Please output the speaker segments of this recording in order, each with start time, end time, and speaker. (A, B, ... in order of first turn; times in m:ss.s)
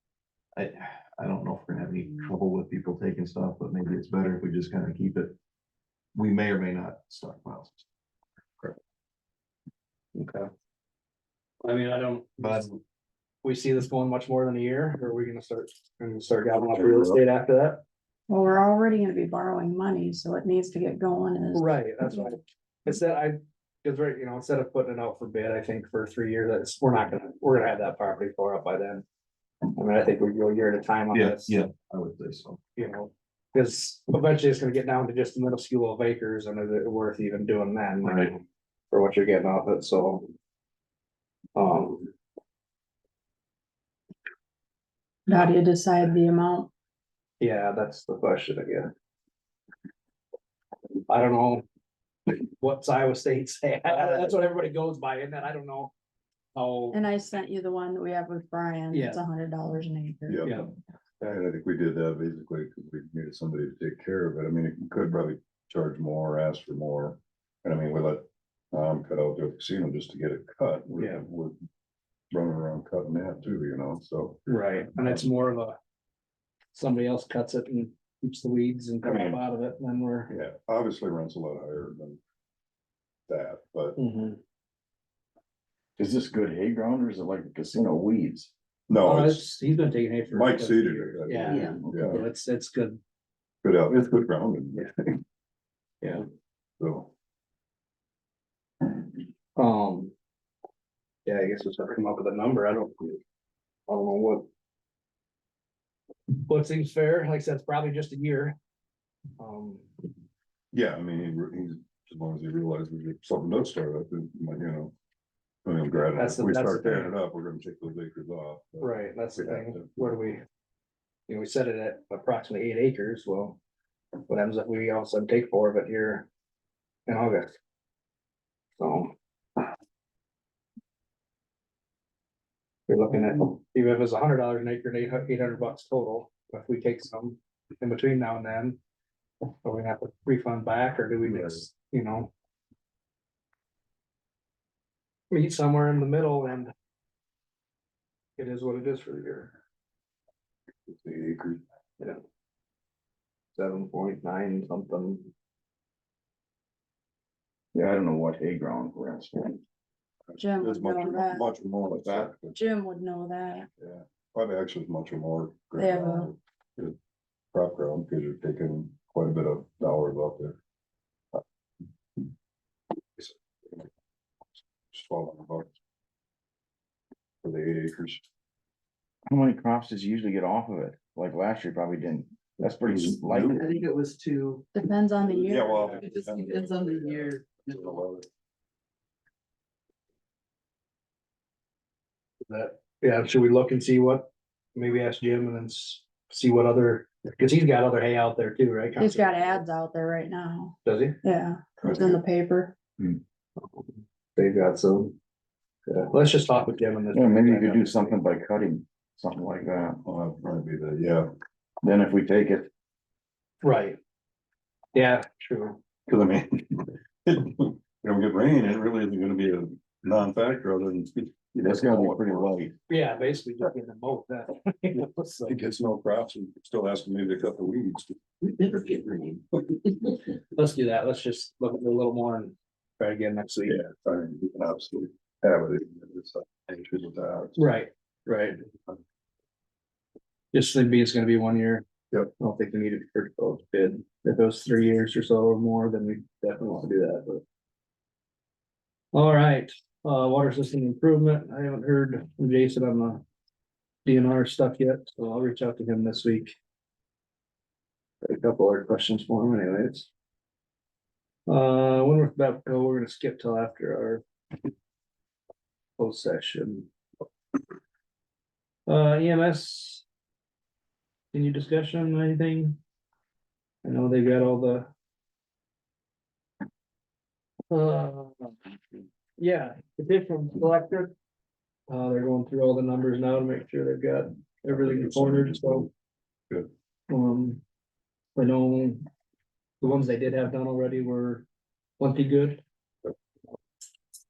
0:00.5-0:05.3 A
0:06.1-0:07.8 A
0:10.1-0:10.5 B
0:11.6-0:12.7 B
0:12.4-0:12.7 A
0:13.4-0:17.8 B
0:18.3-0:21.7 C
0:21.5-0:29.0 B
0:29.7-0:31.6 B
0:31.1-0:32.6 A
0:32.8-0:40.3 B
0:41.6-0:42.1 B
0:45.3-0:46.7 C
0:47.4-0:48.9 B
0:51.1-0:51.6 B
0:52.3-0:55.9 B
0:56.5-0:57.0 B
0:56.9-1:00.4 C
0:58.9-0:59.2 B
1:00.3-1:00.7 D
1:00.4-1:01.4 B
1:01.3-1:11.6 D
1:11.0-1:11.2 B
1:12.3-1:14.4 D
1:14.5-1:15.8 B
1:15.0-1:15.2 D
1:16.7-1:20.3 B
1:19.0-1:19.4 D
1:20.3-1:22.2 D
1:23.3-1:24.0 D
1:24.0-1:24.4 B
1:26.0-1:28.5 E
1:28.9-1:29.5 D
1:29.0-1:33.0 B
1:30.3-1:32.2 D
1:31.4-1:31.8 F
1:33.6-1:35.0 D
1:36.8-1:37.1 D
1:39.6-1:40.1 B
1:41.2-1:43.2 B
1:43.9-1:44.4 B
1:46.4-1:48.6 B
1:49.4-1:49.9 B
1:50.7-1:54.9 D
1:55.6-2:00.0 D
1:56.2-1:57.1 B
1:58.8-2:00.4 B
2:01.3-2:03.6 B
2:04.3-2:06.3 B
2:07.1-2:07.5 B
2:08.8-2:09.1 B
2:12.9-2:18.8 B
2:19.6-2:22.3 B
2:21.2-2:21.6 D
2:25.3-2:26.7 B
2:28.4-2:29.5 B
2:30.9-2:31.6 D
2:33.5-2:35.3 B
2:37.7-2:39.6 E
2:40.4-2:41.4 C
2:40.6-2:42.6 D
2:41.9-2:42.4 E
2:42.5-2:43.7 C
2:43.8-2:46.9 D
2:45.8-2:46.3 C
2:47.5-2:50.6 D
2:53.2-2:53.9 D
2:54.9-2:55.7 D
2:57.4-2:58.2 D
2:59.3-3:03.7 E
3:02.8-3:03.8 D
3:03.5-3:04.6 F
3:04.7-3:05.9 C
3:05.2-3:08.3 D
3:05.8-3:08.0 F
3:12.4-3:19.6 B
3:19.0-3:22.8 C
3:20.8-3:21.2 B
3:21.8-3:22.2 D
3:24.4-3:25.1 B
3:25.9-3:28.2 B
3:27.1-3:30.0 E
3:30.0-3:31.3 D
3:31.8-3:32.7 E
3:33.6-3:34.0 B
3:34.9-3:35.8 B
3:36.1-3:42.6 D
3:41.6-3:42.7 E
3:42.9-3:45.5 B
3:45.4-3:48.2 D
3:48.5-3:49.4 F
3:50.3-3:53.8 B
3:53.6-3:57.7 D
3:57.6-3:58.6 B
4:00.5-4:01.8 B
4:02.4-4:07.4 B
4:09.1-4:13.2 B
4:14.0-4:16.5 B
4:18.2-4:20.1 B
4:21.5-4:24.2 B
4:26.0-4:26.9 B
4:28.9-4:30.0 B
4:31.3-4:32.8 B
4:33.8-4:34.9 B
4:37.7-4:38.6 B
4:39.4-4:41.1 B
4:41.9-4:45.9 B
4:44.7-4:45.9 D
4:47.1-4:47.6 B
4:48.4-4:49.1 B
4:49.8-4:51.4 B
4:52.0-4:52.6 B